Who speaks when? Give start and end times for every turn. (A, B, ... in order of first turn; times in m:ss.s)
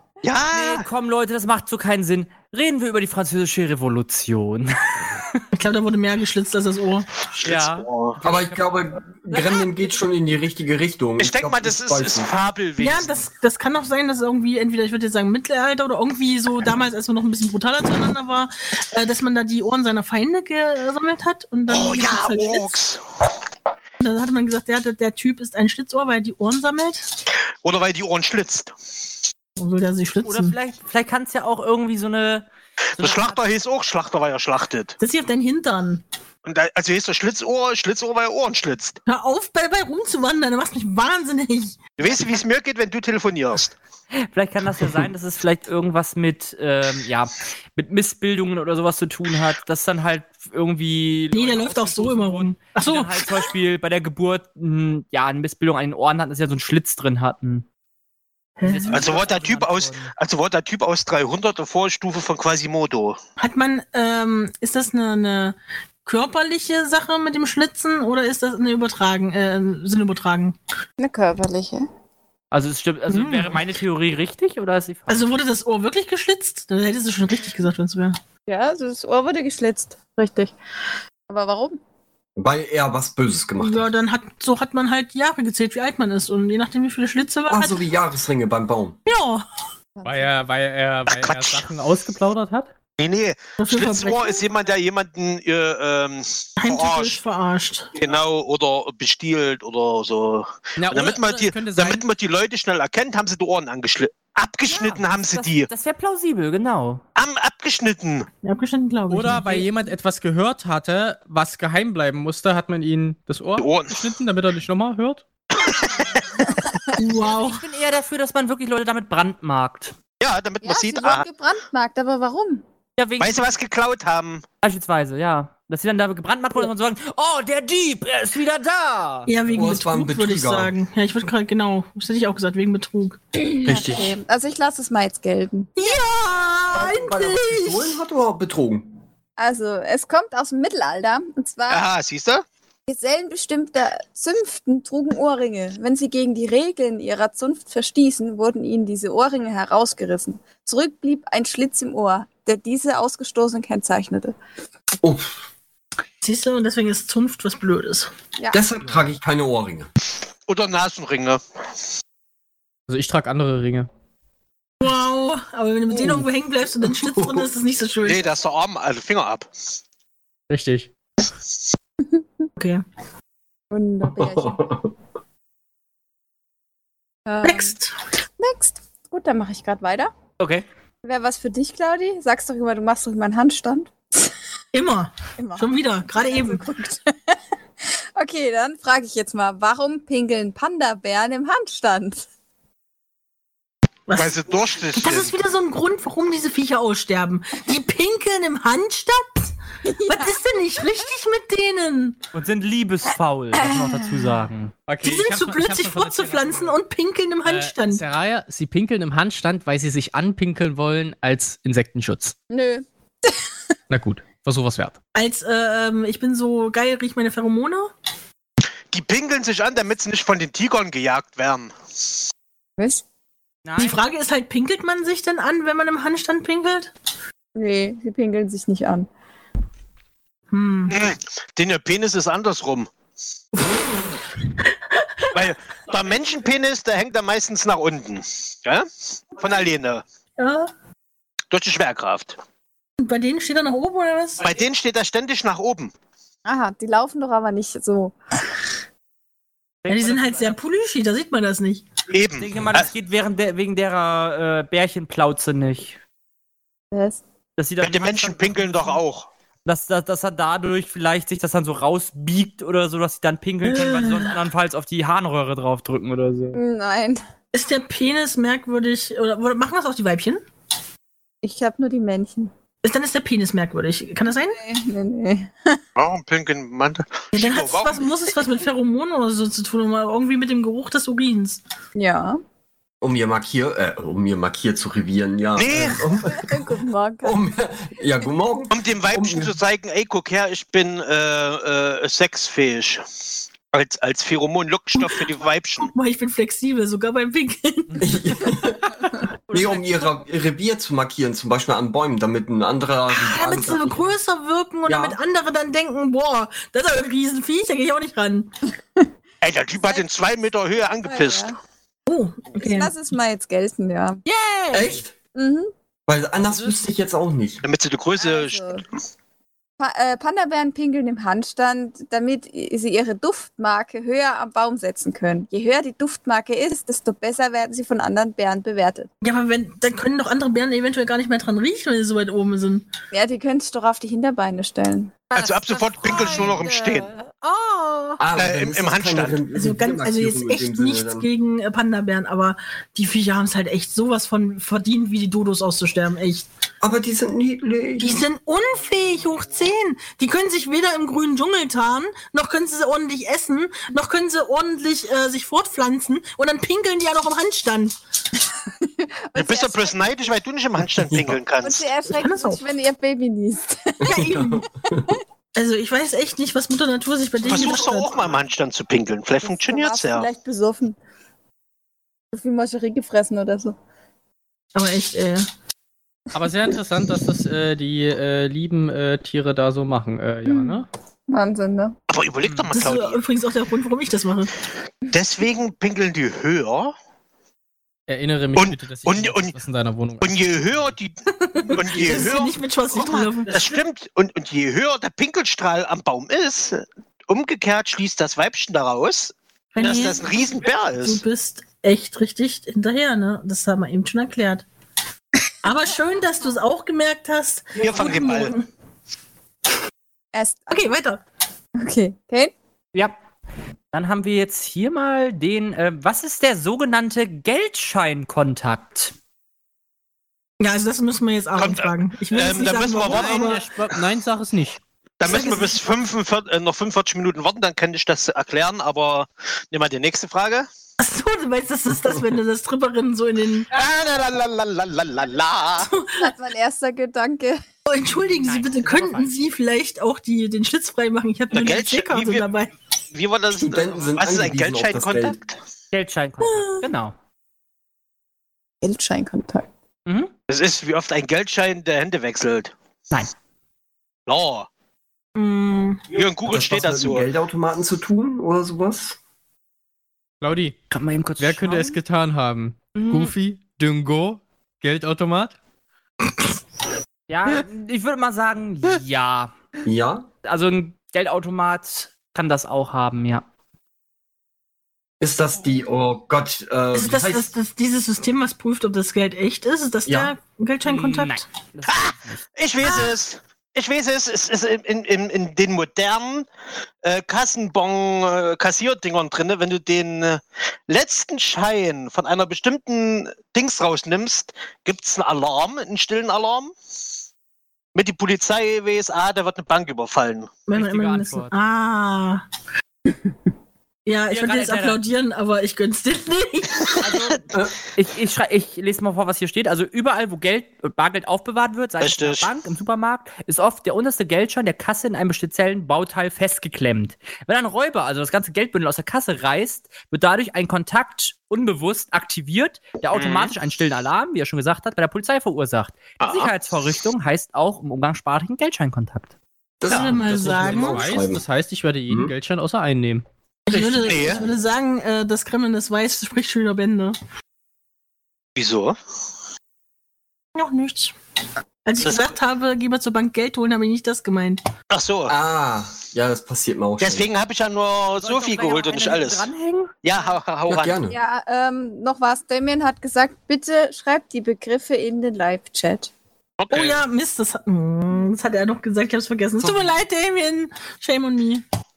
0:00.2-0:00.9 A
0:00.5-0:05.4 B
0:05.5-0:07.1 C
0:07.4-0:08.2 A
0:07.4-0:09.6 B
0:08.2-0:12.3 D
0:11.2-0:13.1 A
0:12.8-0:22.8 C
0:21.7-0:23.0 A
0:24.0-0:27.1 C
0:27.6-0:28.7 A
0:29.6-0:30.6 C
0:30.2-0:33.4 B
0:33.0-0:35.0 A
0:35.0-0:36.0 C
0:36.4-0:39.0 A
0:39.1-0:41.9 C
0:42.0-0:43.8 A
0:44.1-0:57.6 B
0:51.3-0:53.4 C
0:58.6-0:59.2 C
0:58.6-1:00.1 B
0:58.9-1:03.2 A
1:03.4-1:10.6 C
1:11.0-1:11.9 E
1:12.5-1:15.2 B
1:13.1-1:13.6 C
1:15.1-1:18.2 C
1:18.5-1:20.6 E
1:21.3-1:21.8 E
1:22.4-1:23.9 D
1:23.6-1:27.8 C
1:27.5-1:29.0 D
1:29.1-1:29.4 C
1:30.0-1:30.3 E
1:30.0-1:32.7 F
1:31.1-1:31.6 A
1:33.0-1:37.2 A
1:33.6-1:34.4 C
1:36.6-1:37.9 C
1:38.0-1:45.7 A
1:40.8-1:42.0 F
1:44.7-1:47.0 B
1:47.2-1:48.3 A
1:48.4-1:49.7 C
1:49.1-1:55.2 F
1:53.6-1:54.0 A
1:55.6-1:56.5 A
1:57.0-1:57.6 C
1:57.2-1:59.9 B
2:00.2-2:01.3 A
2:00.6-2:02.6 E
2:03.0-2:03.4 B
2:03.2-2:04.4 A
2:04.6-2:09.3 B
2:09.3-2:13.2 C
2:09.6-2:10.7 D
2:13.6-2:14.2 D
2:13.7-2:15.7 E
2:15.8-2:18.0 C
2:16.7-2:18.9 D
2:19.4-2:21.8 E
2:21.7-2:22.4 A
2:22.9-2:34.4 E
2:35.0-2:35.4 D
2:36.2-2:38.1 C
2:38.5-2:39.9 D
2:40.5-2:41.4 A
2:42.9-2:43.9 F
2:44.8-2:48.2 C
2:45.9-2:46.3 D
2:46.9-2:47.5 D
2:48.0-2:49.5 A
2:50.5-2:50.9 F
2:52.1-2:52.5 E
2:52.6-2:52.8 C
2:53.7-2:54.8 E
2:54.0-2:54.9 D
2:57.3-2:57.7 E
2:57.4-2:57.9 C
2:58.4-3:00.1 E
3:00.4-3:00.6 B
3:01.0-3:04.3 E
3:04.7-3:06.6 C
3:05.4-3:07.4 E
3:08.2-3:12.3 E
3:14.1-3:15.4 A
3:15.0-3:19.5 C
3:19.9-3:20.4 E
3:20.1-3:22.2 C
3:22.3-3:24.7 B
3:24.9-3:26.8 F
3:25.0-3:28.0 C
3:27.4-3:32.4 F
3:32.5-3:33.3 E
3:33.9-3:35.0 F
3:35.2-3:37.9 C
3:38.9-3:41.7 A
3:43.6-3:44.0 B
3:43.8-3:46.9 C
3:47.6-3:49.1 E
3:50.5-3:51.0 C
3:50.9-3:52.9 A
3:53.6-3:54.2 C
3:54.9-3:55.3 C
3:55.3-4:00.0 A
4:00.4-4:00.7 C
4:01.5-4:02.4 A
4:03.0-4:04.4 C
4:04.4-4:05.9 A
4:06.5-4:08.2 E
4:09.8-4:10.6 B
4:09.9-4:11.8 C
4:12.1-4:12.9 A
4:12.4-4:16.0 B
4:16.9-4:17.2 E
4:17.6-4:19.0 B
4:17.8-4:19.3 A
4:19.6-4:26.6 B
4:23.6-4:24.4 C
4:26.5-4:27.2 E
4:27.5-4:30.4 C
4:31.4-4:32.5 E
4:32.8-4:34.6 C
4:34.4-4:35.8 E
4:36.0-4:38.1 A
4:37.3-4:41.6 C
4:42.0-4:42.4 E
4:43.0-4:49.6 D
4:45.6-4:46.0 A
4:46.2-4:47.4 E
4:48.7-4:53.0 A
4:53.7-4:55.9 A
4:55.0-4:55.2 C
4:55.8-4:58.0 C
4:58.0-5:04.0 D
4:59.6-4:59.8 C
5:03.2-5:08.5 C
5:04.9-5:05.2 D
5:09.4-5:11.5 A
5:09.8-5:10.0 E
5:11.0-5:11.6 E
5:12.1-5:13.0 C
5:12.5-5:14.2 E
5:14.3-5:14.9 C
5:14.7-5:15.1 D
5:15.4-5:15.7 E
5:16.1-5:17.6 D
5:17.6-5:18.8 A
5:18.2-5:18.8 E
5:19.8-5:29.1 E
5:29.2-5:32.9 C
5:33.1-5:38.2 E
5:35.4-5:37.1 A
5:38.2-5:41.3 D
5:38.4-5:39.4 A
5:39.5-5:46.5 C
5:46.8-5:48.2 D
5:48.0-5:58.0 C
5:58.7-6:00.3 E
5:59.4-6:01.9 A
6:01.1-6:01.4 D
6:01.6-6:04.1 E
6:02.2-6:02.6 C
6:04.0-6:05.2 D
6:04.1-6:04.6 C
6:05.6-6:08.2 C
6:07.4-6:10.3 A
6:09.4-6:11.0 E
6:12.3-6:13.8 E
6:14.8-6:15.5 C
6:16.3-6:20.9 F
6:20.5-6:22.0 E
6:22.1-6:23.2 A
6:22.7-6:24.5 C
6:25.1-6:26.9 A
6:28.1-6:31.0 F
6:28.6-6:29.6 A
6:30.2-6:31.1 A
6:31.3-6:33.7 C
6:31.7-6:41.2 A
6:39.8-6:40.3 C
6:41.0-6:44.6 C
6:45.6-6:48.7 C
6:47.8-6:48.5 A
6:50.3-6:50.9 E
6:50.7-6:51.2 C
6:51.8-6:52.5 E
6:53.9-6:59.1 B
7:00.6-7:03.7 C
7:01.6-7:03.6 A
7:02.9-7:04.8 F
7:05.2-7:10.7 A
7:05.2-7:05.8 C
7:11.0-7:13.7 C
7:13.7-7:15.9 A
7:15.8-7:16.3 C
7:16.2-7:17.6 E
7:17.9-7:22.7 C
7:18.4-7:19.3 B
7:21.5-7:22.5 A
7:23.1-7:25.5 A
7:23.5-7:25.4 D
7:25.9-7:27.1 B
7:26.4-7:26.9 C
7:28.8-7:29.7 E
7:30.1-7:30.3 B
7:30.5-7:32.7 A
7:34.3-7:34.7 A
7:35.4-7:36.0 C
7:36.1-7:37.3 A
7:36.5-7:39.2 D
7:40.4-7:40.8 F
7:40.9-7:42.0 B
7:41.4-7:45.5 F
7:43.0-7:43.3 B
7:47.3-7:49.5 B
7:49.8-7:50.3 D
7:50.4-7:53.4 B
7:55.2-7:57.5 D
7:56.9-8:01.4 C
8:00.1-8:00.4 D
8:00.8-8:02.4 B
8:01.9-8:06.5 A
8:07.0-8:16.7 A
8:18.0-8:20.5 A
8:20.7-8:22.4 C
8:20.7-8:21.5 B
8:24.1-8:27.1 C
8:24.3-8:25.0 B
8:27.0-8:27.4 B
8:28.0-8:49.3 B
8:32.0-8:32.5 A
8:43.1-8:43.5 A
8:46.2-8:46.5 A
8:49.8-8:51.4 D
8:49.9-8:51.2 C
8:50.7-8:53.2 F
8:53.7-8:57.2 C
8:53.7-8:54.4 A
8:58.6-8:59.0 A
9:00.6-9:01.1 C
9:01.8-9:04.6 C
9:02.0-9:02.4 A
9:04.9-9:05.4 A
9:05.3-9:07.3 D
9:07.0-9:09.5 A
9:08.2-9:10.3 B
9:10.0-9:11.0 A
9:10.7-9:11.2 D
9:11.1-9:16.1 E
9:16.6-9:17.0 A
9:16.7-9:21.6 C
9:19.6-9:19.9 D